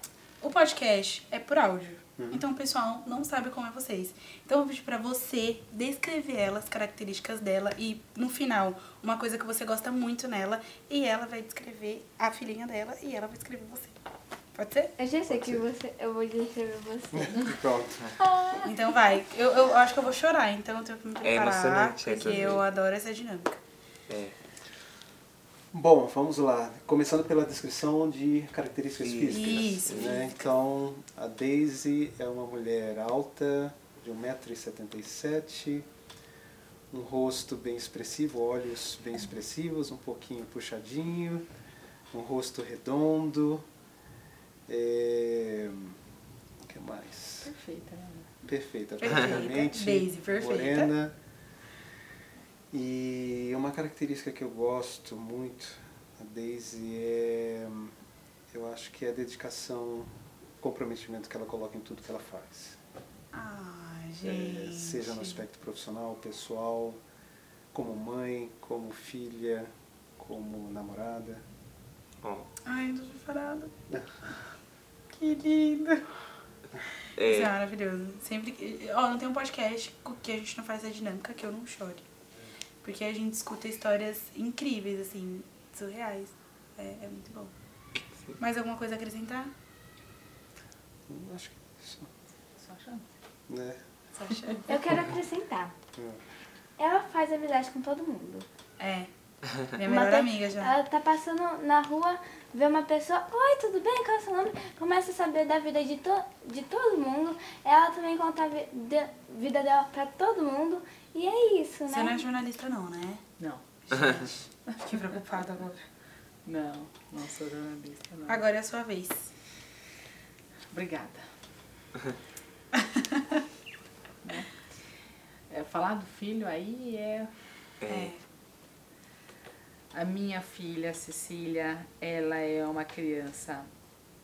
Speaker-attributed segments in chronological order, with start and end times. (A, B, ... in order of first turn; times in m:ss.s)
0:00.4-0:13.9 A
0:02.2-0:02.4 B
0:14.5-0:14.9 A
0:15.0-0:17.4 C
0:15.3-0:15.7 B
0:17.1-0:18.1 B
0:18.2-0:18.8 D
0:18.6-0:23.6 A
0:21.2-0:22.6 E
0:24.1-0:24.3 E
0:25.7-0:35.9 B
0:29.0-0:30.2 E
0:29.3-0:30.5 A
0:36.9-0:41.5 B
0:42.1-0:43.6 B
0:44.7-0:46.0 B
0:46.6-0:47.5 B
0:47.4-0:48.3 D
0:48.4-0:51.1 B
0:49.0-0:50.9 A
0:52.7-0:57.9 B
0:58.5-1:02.8 B
1:03.3-1:05.4 A
1:04.2-1:07.0 B
1:07.7-1:11.4 B
1:12.2-1:12.5 E
1:12.6-1:13.7 A
1:15.1-1:16.0 A
1:17.2-1:17.6 E
1:17.2-1:22.0 A
1:22.8-1:27.5 A
1:28.4-1:29.5 A
1:31.1-1:32.1 B
1:32.6-1:33.0 D
1:33.5-1:33.8 B
1:34.1-1:34.7 A
1:34.7-1:35.7 C
1:35.9-1:36.2 B
1:36.8-1:38.5 C
1:38.8-1:39.1 A
1:39.7-1:40.8 A
1:39.8-1:52.2 C
1:51.9-1:53.2 A
1:53.9-1:55.8 A
1:56.4-1:58.4 D
1:58.3-1:59.3 A
2:00.7-2:01.2 D
2:02.8-2:03.4 A
2:04.2-2:04.5 D
2:05.5-2:07.3 D
2:07.8-2:08.1 E
2:07.8-2:08.2 A
2:09.9-2:13.7 D